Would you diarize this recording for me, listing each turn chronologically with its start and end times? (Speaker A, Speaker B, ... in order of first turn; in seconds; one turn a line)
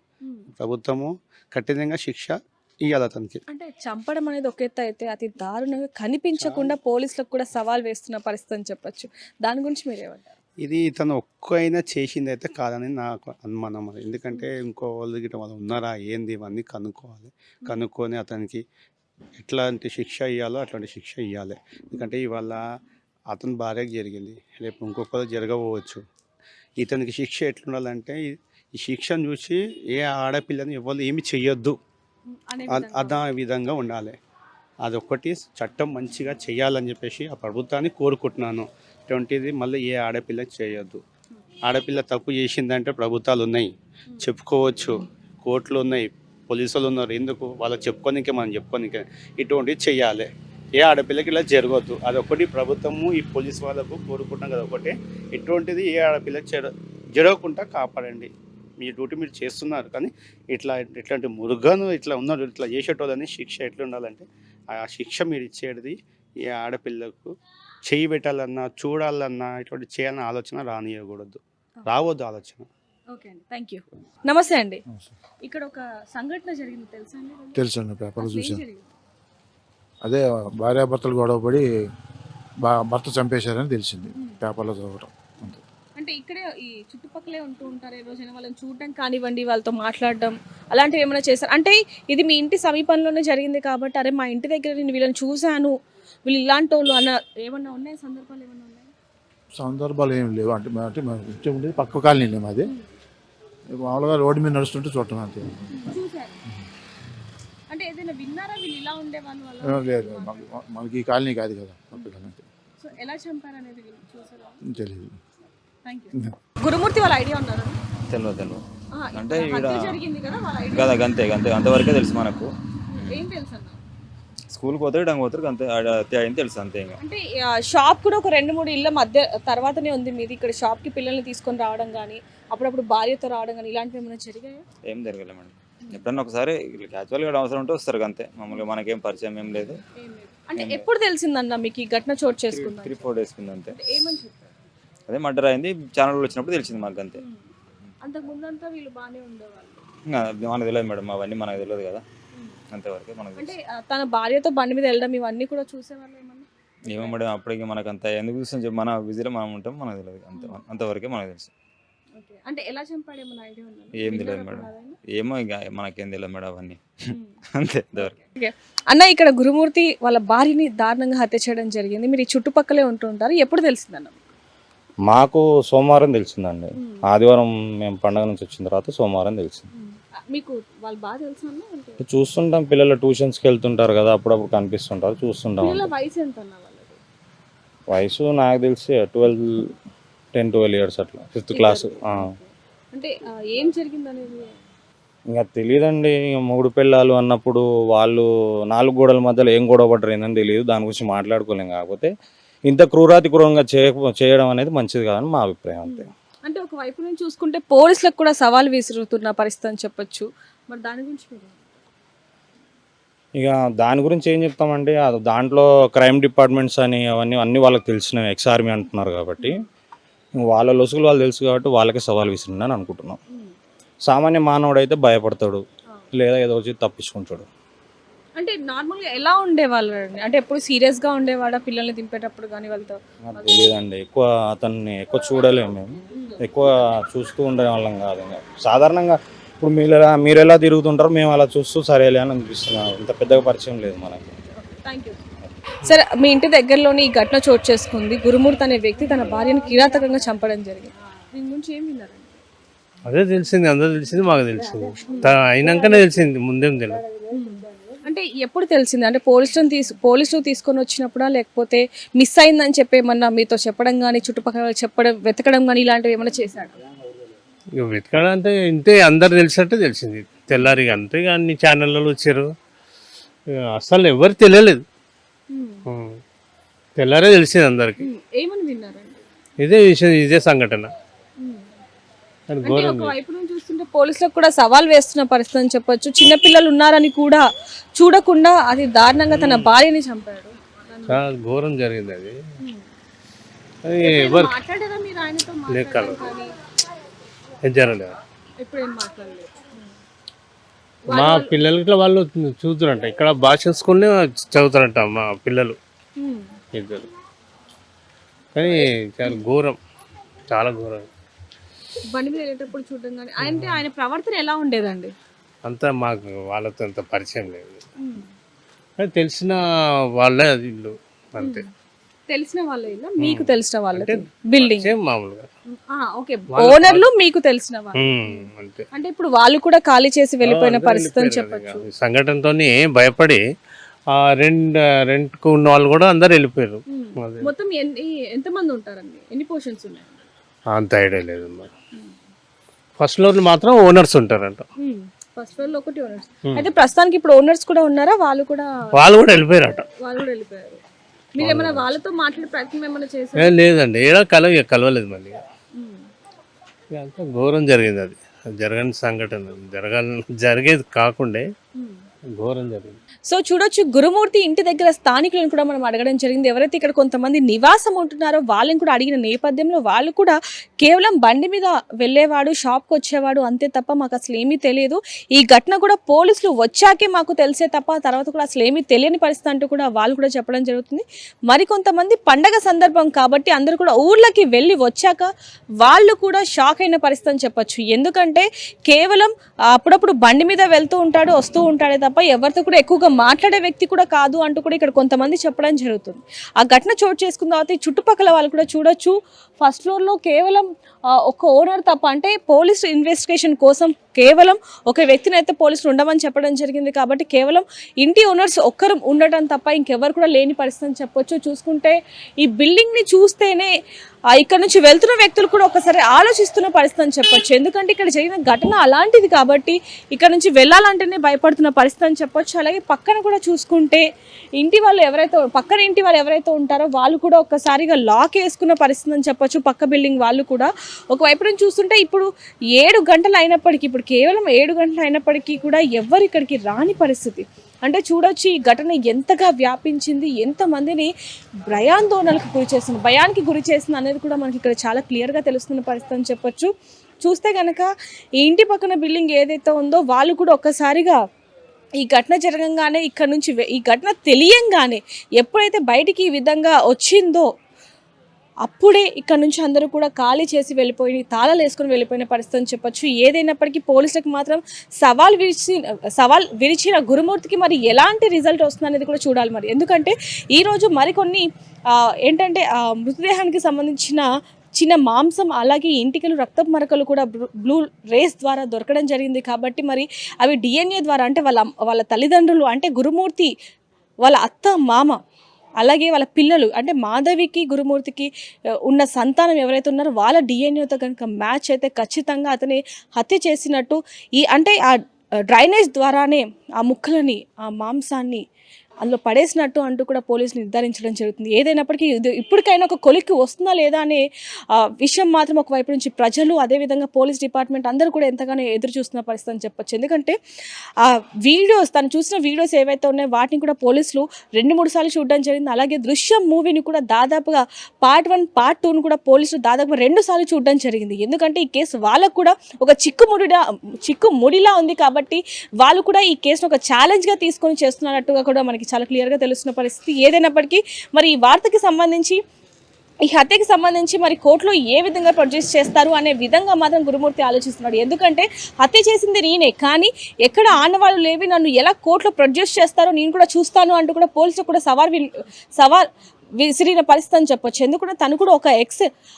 Speaker A: 0.6-3.4
Speaker B: 3.5-10.3
Speaker A: 6.4-6.7
Speaker A: 10.6-18.6
Speaker A: 19.4-22.6
Speaker A: 23.3-26.0
Speaker A: 26.8-31.8
Speaker B: 32.3-33.2
Speaker A: 32.7-34.1
Speaker A: 34.8-41.0
Speaker A: 41.7-67.3
Speaker A: 67.8-72.7
Speaker B: 73.1-74.8
Speaker B: 75.4-77.6
Speaker C: 77.5-78.6
Speaker B: 78.2-78.9
Speaker C: 80.0-81.7
Speaker C: 82.6-85.6
Speaker B: 86.0-95.7
Speaker B: 96.2-98.9
Speaker C: 99.5-102.7
Speaker C: 103.7-105.8
Speaker B: 105.7-106.4
Speaker B: 107.7-110.5
Speaker C: 109.6-112.4
Speaker B: 112.8-114.6
Speaker C: 114.7-115.2
Speaker B: 115.8-117.8
Speaker D: 118.1-118.6
Speaker B: 119.0-121.1
Speaker D: 119.1-120.0
Speaker D: 120.7-123.2
Speaker B: 122.9-123.8
Speaker D: 124.5-127.0
Speaker B: 127.0-134.6
Speaker D: 134.9-139.8
Speaker B: 140.0-143.1
Speaker D: 140.6-140.8
Speaker D: 142.5-143.7
Speaker B: 143.8-144.6
Speaker D: 145.1-147.2
Speaker B: 147.1-147.4
Speaker B: 148.0-149.8
Speaker D: 150.1-152.0
Speaker B: 152.3-152.6
Speaker D: 152.7-153.5
Speaker B: 153.3-157.3
Speaker D: 156.9-161.5
Speaker B: 162.2-165.0
Speaker D: 163.9-166.8
Speaker D: 167.6-168.1
Speaker B: 168.0-174.2
Speaker E: 175.1-179.7
Speaker B: 179.7-182.0
Speaker E: 182.0-185.9
Speaker B: 185.6-187.0
Speaker E: 187.9-189.7
Speaker E: 190.3-192.3
Speaker B: 191.5-194.6
Speaker E: 195.3-202.1
Speaker E: 202.7-206.1
Speaker B: 205.8-211.7
Speaker E: 213.3-219.6
Speaker E: 220.4-223.2
Speaker E: 224.1-225.6
Speaker E: 226.1-227.5
Speaker B: 228.4-233.7
Speaker E: 233.3-244.3
Speaker B: 236.1-236.4
Speaker B: 244.6-245.2
Speaker B: 245.8-252.4
Speaker F: 253.0-257.1
Speaker B: 255.1-255.3
Speaker B: 257.2-266.8
Speaker F: 267.8-272.5
Speaker F: 273.5-274.8
Speaker B: 275.5-275.8
Speaker F: 275.9-276.2
Speaker F: 277.0-278.0
Speaker B: 278.0-279.2
Speaker F: 279.6-280.9
Speaker B: 281.4-281.6
Speaker F: 282.5-283.1
Speaker B: 282.6-287.4
Speaker B: 287.9-291.2
Speaker F: 289.3-289.7
Speaker F: 291.1-292.4
Speaker F: 293.8-294.6
Speaker B: 294.0-296.5
Speaker F: 295.7-296.2
Speaker F: 297.6-298.2
Speaker B: 298.6-299.8
Speaker B: 301.1-301.5
Speaker F: 301.1-305.8
Speaker B: 306.2-306.5
Speaker F: 306.7-307.1
Speaker F: 308.5-309.8
Speaker B: 308.6-309.4
Speaker F: 310.5-311.1
Speaker B: 312.1-315.1
Speaker F: 313.4-313.8
Speaker F: 315.6-317.8
Speaker B: 318.0-318.3
Speaker F: 319.0-319.6
Speaker F: 320.1-321.6
Speaker B: 321.4-321.7
Speaker B: 322.3-324.9
Speaker F: 323.2-325.5
Speaker B: 325.7-331.8
Speaker F: 326.5-327.1
Speaker F: 328.0-328.9
Speaker F: 330.4-333.4
Speaker F: 334.1-337.5
Speaker B: 336.9-340.2
Speaker F: 340.7-341.7
Speaker F: 343.0-344.6
Speaker B: 344.8-348.7
Speaker F: 348.9-349.9
Speaker B: 350.0-350.8
Speaker B: 351.4-353.5
Speaker F: 351.4-351.8
Speaker F: 353.4-355.4
Speaker B: 355.8-356.0
Speaker F: 356.9-361.5
Speaker B: 361.8-362.0
Speaker F: 362.3-363.0
Speaker B: 363.3-385.3
Speaker B: 385.8-400.7
Speaker B: 401.2-413.7
Speaker B: 414.3-424.0
Speaker B: 424.6-432.2
Speaker B: 432.8-441.1
Speaker B: 441.7-446.7
Speaker B: 447.2-447.9
Speaker B: 448.4-451.2
Speaker B: 452.0-457.5
Speaker B: 458.6-471.4
Speaker B: 472.3-474.2
Speaker B: 474.8-483.5
Speaker B: 484.2-485.2
Speaker B: 485.8-488.3
Speaker B: 488.9-494.8
Speaker B: 495.5-498.4
Speaker B: 499.0-504.2
Speaker B: 504.7-510.3
Speaker B: 511.0-532.4
Speaker B: 533.3-546.0
Speaker B: 546.6-549.0